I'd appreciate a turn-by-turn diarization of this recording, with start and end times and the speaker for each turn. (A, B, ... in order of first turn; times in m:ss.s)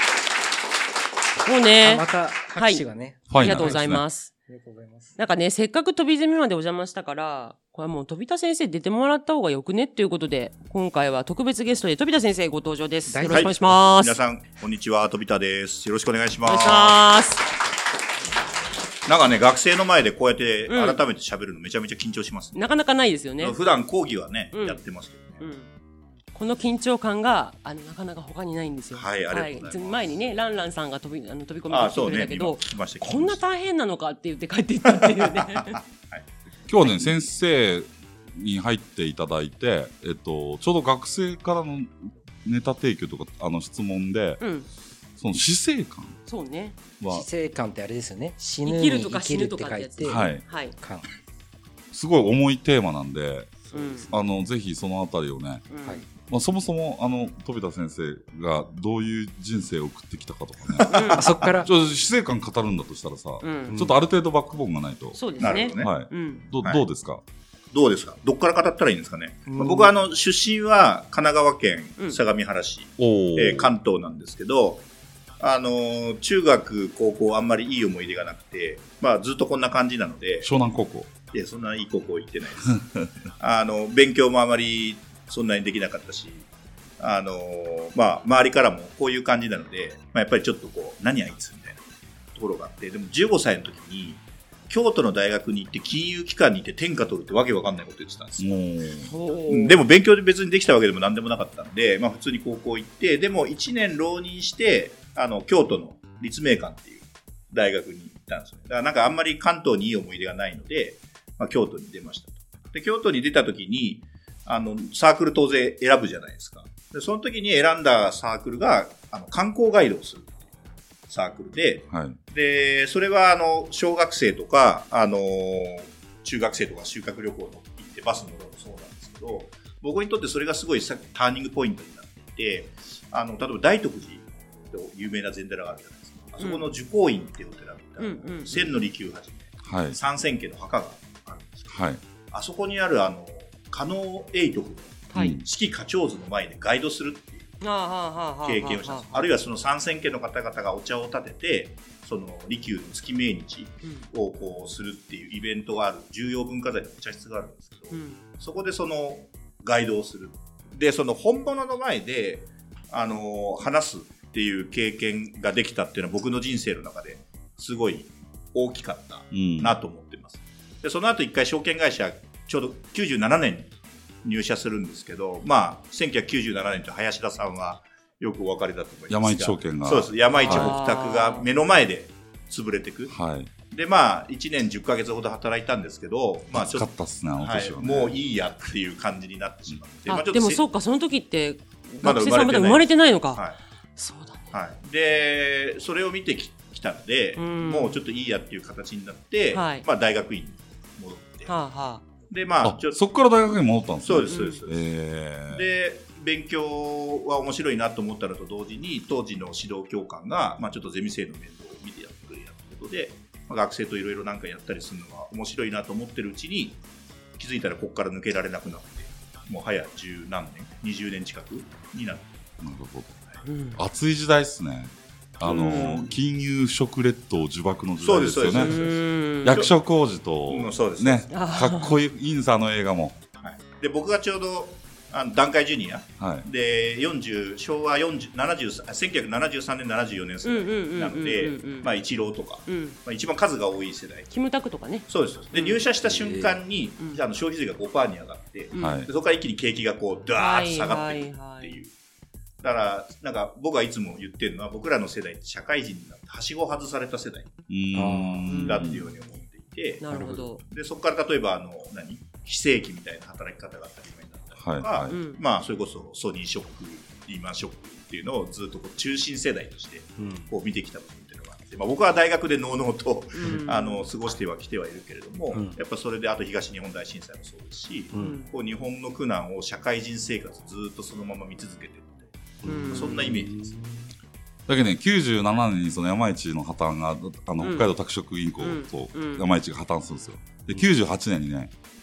0:01.4-0:04.3 A
0:01.8-0:03.8 B
0:03.3-0:04.0 C
0:04.5-0:05.2 B
0:05.2-0:14.2 A
0:13.1-0:13.6 B
0:13.3-0:17.0 D
0:16.4-0:17.4 A
0:19.0-0:22.6 D
0:20.7-0:21.0 A
0:22.5-0:23.6 A
0:23.4-0:25.4 D
0:24.5-0:24.8 A
0:25.4-0:25.7 A
0:26.3-0:35.8 A
0:29.0-0:30.2 D
0:31.7-0:33.4 D
0:34.8-0:36.2 D
0:36.7-0:44.4 C
0:44.4-0:44.7 A
0:45.2-0:46.2 C
0:46.2-0:46.8 A
0:47.0-0:47.2 C
0:47.1-0:51.0 B
0:48.6-0:50.7 A
0:50.0-0:50.4 C
0:51.9-0:55.6 C
0:53.6-0:54.2 B
0:53.7-0:54.1 A
0:55.7-0:56.0 A
0:56.3-1:05.2 C
1:00.9-1:01.3 A
1:00.9-1:01.2 D
1:01.1-1:01.7 B
1:03.4-1:03.8 A
1:05.1-1:06.4 A
1:05.4-1:05.9 D
1:05.8-1:07.2 C
1:07.7-1:14.8 D
1:09.5-1:09.9 B
1:13.0-1:13.7 C
1:15.4-1:20.5 D
1:20.4-1:21.1 C
1:21.3-1:22.8 D
1:23.4-1:26.5 D
1:27.0-1:31.8 D
1:32.3-1:38.6 D
1:38.4-1:39.1 C
1:39.1-1:39.8 A
1:39.5-2:00.4 D
2:01.1-2:27.6 D
2:01.9-2:02.2 C
2:16.4-2:16.7 A
2:18.0-2:18.8 A
2:19.6-2:20.0 C
2:21.7-2:22.0 C
2:25.1-2:25.4 A
2:25.1-2:25.4 C
2:27.6-2:29.3 A
2:28.4-2:53.7 D
2:37.9-2:38.2 A
2:49.3-2:49.8 C
2:54.2-3:03.1 D
2:59.1-3:00.8 C
3:00.4-3:01.5 A
3:03.1-3:03.5 C
3:03.7-3:10.6 D
3:06.5-3:08.2 C
3:10.0-3:13.4 A
3:12.0-3:13.6 D
3:14.0-3:14.4 A
3:14.5-3:21.5 D
3:17.4-3:18.0 A
3:19.5-3:19.8 A
3:21.5-3:22.0 A
3:22.3-3:23.0 D
3:22.6-3:25.6 C
3:24.0-3:24.8 D
3:24.3-3:24.6 A
3:25.5-3:36.8 D
3:37.4-3:42.3 D
3:42.6-3:43.2 C
3:43.4-3:43.8 A
3:43.8-3:48.8 C
3:45.4-3:46.1 A
3:45.4-3:46.1 D
3:48.0-3:49.7 D
3:48.5-3:49.6 A
3:49.4-3:53.2 C
3:50.5-3:51.3 D
3:51.3-3:52.0 A
3:53.4-4:04.3 D
3:56.2-3:56.4 C
4:00.4-4:01.9 A
4:02.7-4:03.0 A
4:04.3-4:05.8 A
4:05.1-4:11.9 D
4:06.0-4:06.6 B
4:08.7-4:09.0 A
4:08.8-4:09.1 C
4:10.3-4:11.8 A
4:12.6-4:17.5 D
4:17.7-4:19.0 C
4:17.9-4:18.5 B
4:18.4-4:43.7 D
4:18.5-4:19.0 A
4:20.0-4:20.6 A
4:20.1-4:20.5 B
4:24.6-4:25.2 C
4:25.1-4:25.4 A
4:30.2-4:30.5 B
4:33.3-4:34.0 A
4:38.1-4:38.4 B
4:38.2-4:38.5 A
4:42.6-4:44.1 B
4:42.6-4:43.2 A
4:44.7-4:51.7 C
4:47.6-4:47.9 A
4:48.6-4:49.5 A